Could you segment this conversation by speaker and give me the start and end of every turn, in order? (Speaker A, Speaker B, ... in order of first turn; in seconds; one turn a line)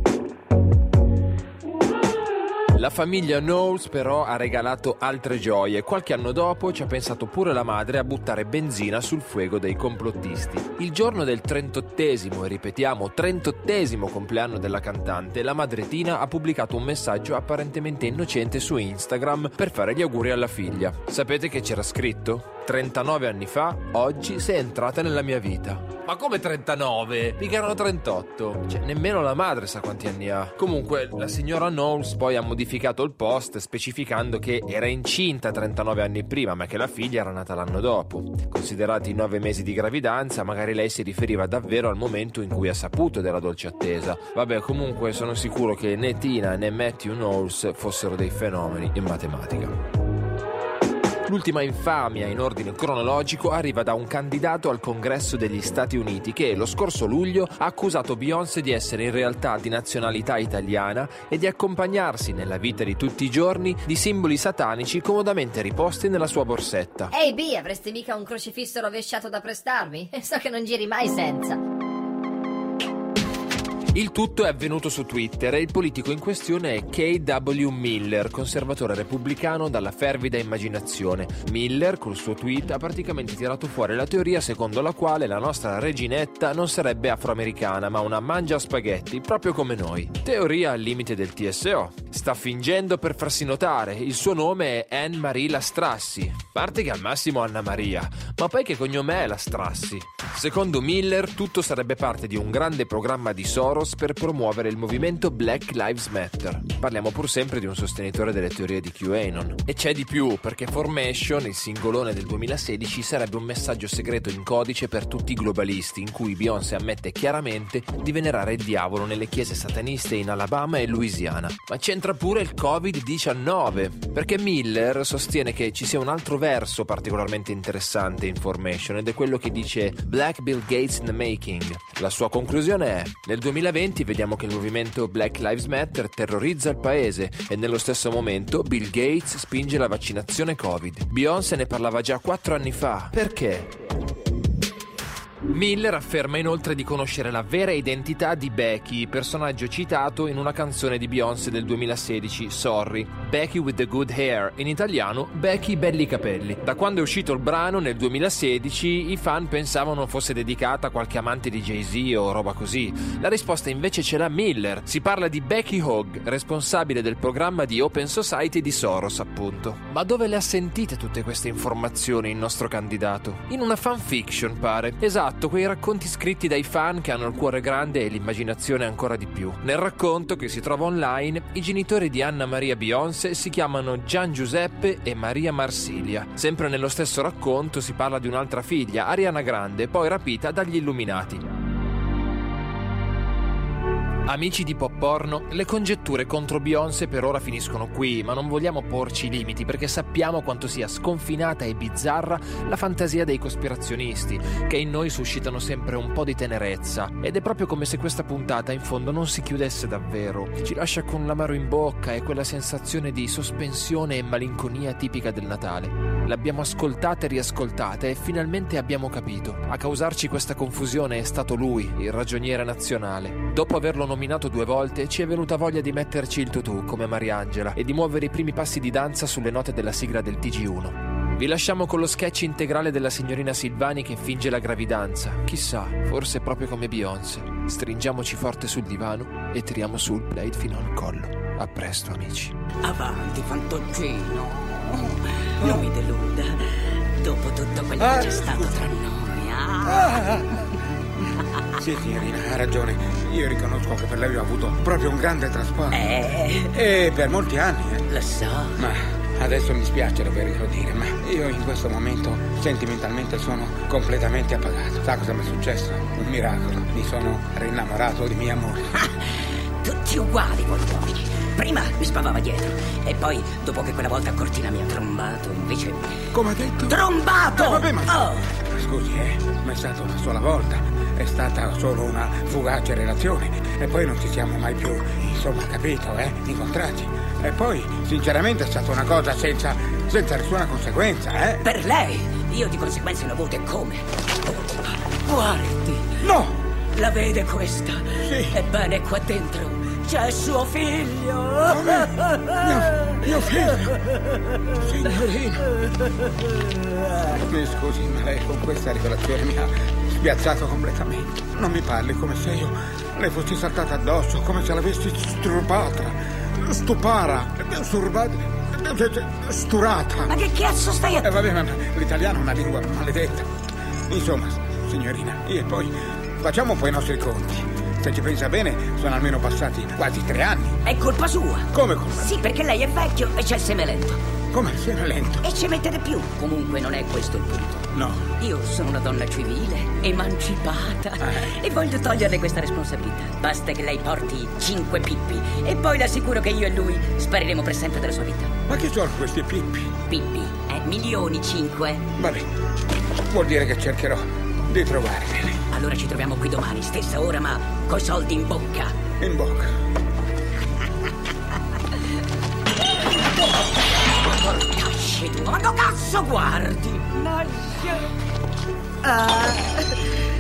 Speaker A: 2.8-49.8
Speaker A: 51.2-67.1
Speaker B: 67.1-71.6
Speaker A: 73.9-143.8
Speaker A: 145.5-191.5
Speaker A: 194.3-242.6
Speaker C: 242.8-250.4
Speaker D: 248.0-248.9
Speaker D: 249.9-250.6
Speaker D: 251.8-258.1
Speaker C: 255.9-256.8
Speaker C: 258.1-258.9
Speaker D: 258.8-269.1
Speaker C: 269.8-276.1
Speaker D: 276.3-291.6
Speaker C: 276.9-278.5
Speaker C: 291.6-296.2
Speaker D: 296.2-296.6
Speaker C: 296.9-303.2
Speaker D: 298.2-298.6
Speaker D: 301.6-304.0
Speaker D: 304.8-305.8
Speaker D: 307.3-320.4
Speaker C: 320.3-321.3
Speaker D: 321.2-323.5
Speaker D: 324.1-330.8
Speaker C: 330.9-334.2
Speaker D: 331.7-332.5
Speaker D: 334.5-335.5
Speaker C: 335.4-348.5
Speaker D: 337.9-338.3
Speaker D: 341.2-341.5
Speaker D: 348.7-349.9
Speaker C: 350.1-352.1
Speaker D: 352.2-352.5
Speaker D: 353.3-355.6
Speaker C: 355.7-358.9
Speaker D: 359.2-359.7
Speaker C: 363.2-368.1
Speaker C: 369.0-370.1